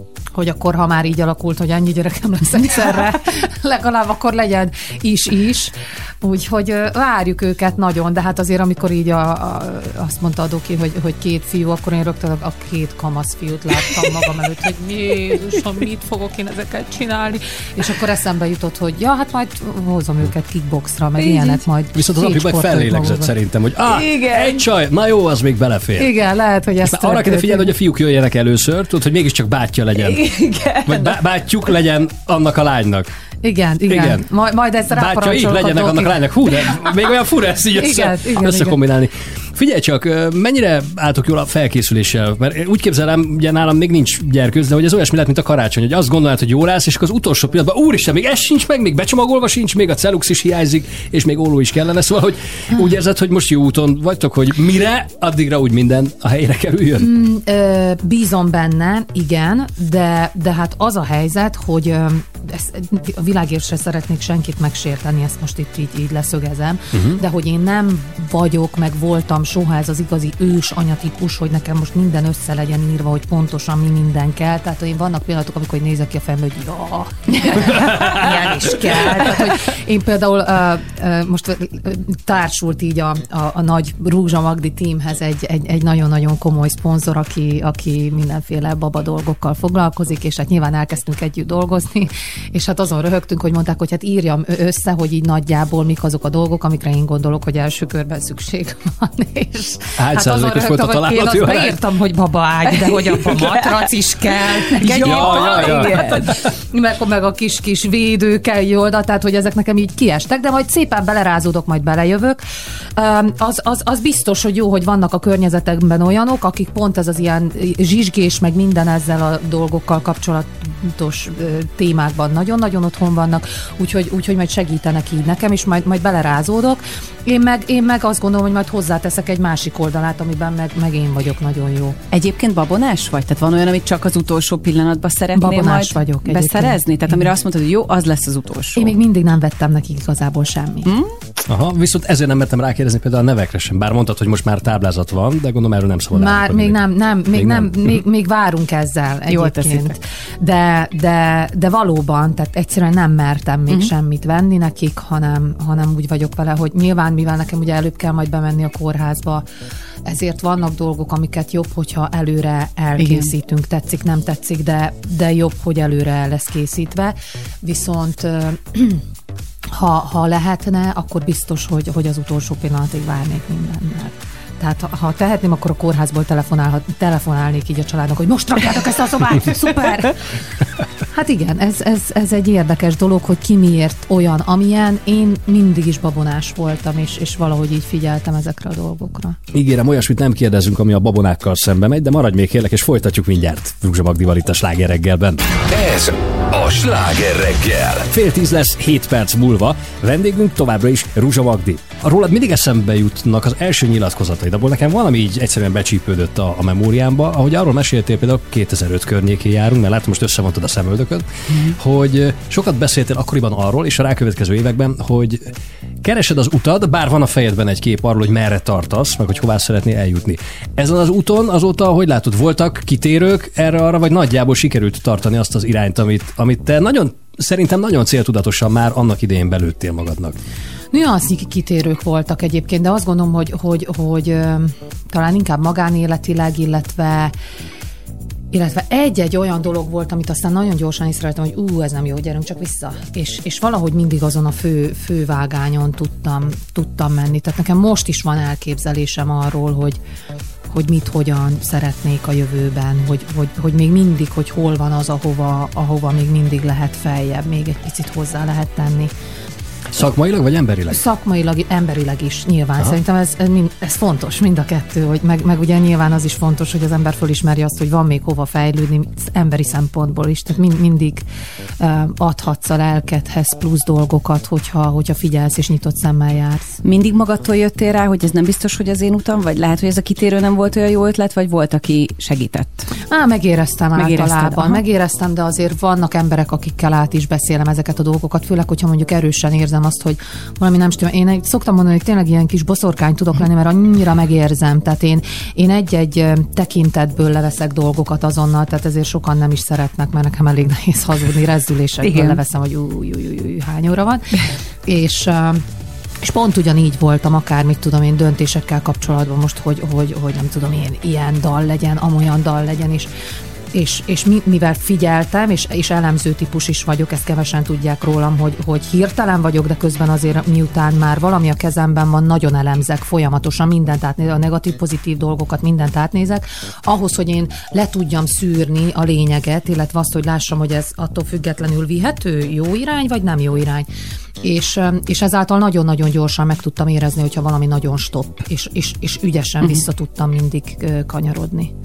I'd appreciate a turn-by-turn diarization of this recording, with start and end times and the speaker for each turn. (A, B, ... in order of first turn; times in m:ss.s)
0:00.4-0:23.3 A
0:21.2-0:21.6 B
0:21.9-0:26.1 C
0:23.8-0:24.6 B
0:26.0-0:27.7 A
0:26.8-0:33.1 C
0:30.0-0:31.2 B
0:33.4-0:36.3 A
0:33.9-0:34.3 C
0:34.9-0:57.1 C
0:37.7-0:38.8 A
0:57.0-1:52.4 A
1:06.9-1:07.2 C
1:40.0-1:41.8 C
1:42.8-1:43.6 B
1:44.7-1:46.4 B
1:44.9-1:46.4 C
1:53.0-2:12.0 A
2:12.1-2:18.9 B
2:15.3-2:17.3 A
2:18.8-2:20.9 A
2:20.9-2:21.1 B
2:21.5-2:28.0 C
2:26.1-2:39.4 A
2:29.3-2:29.9 B
2:40.1-2:49.0 A
2:43.0-2:43.3 B
2:49.7-3:00.2 A
3:01.1-3:09.4 A
3:09.5-3:15.6 C
3:15.7-3:18.1 D
3:18.0-3:50.4 C
3:50.9-3:57.3 A
3:58.5-4:10.0 A
4:10.7-4:19.1 A
4:19.9-4:21.0 C
4:20.9-4:31.3 A
4:31.8-4:36.7 A
4:36.8-4:42.9 B
4:43.1-5:04.3 A
4:44.0-4:44.8 B
5:02.0-5:02.4 B
5:04.8-5:05.6 A
5:06.2-5:13.1 A
5:13.7-5:33.9 A
5:34.4-5:41.7 A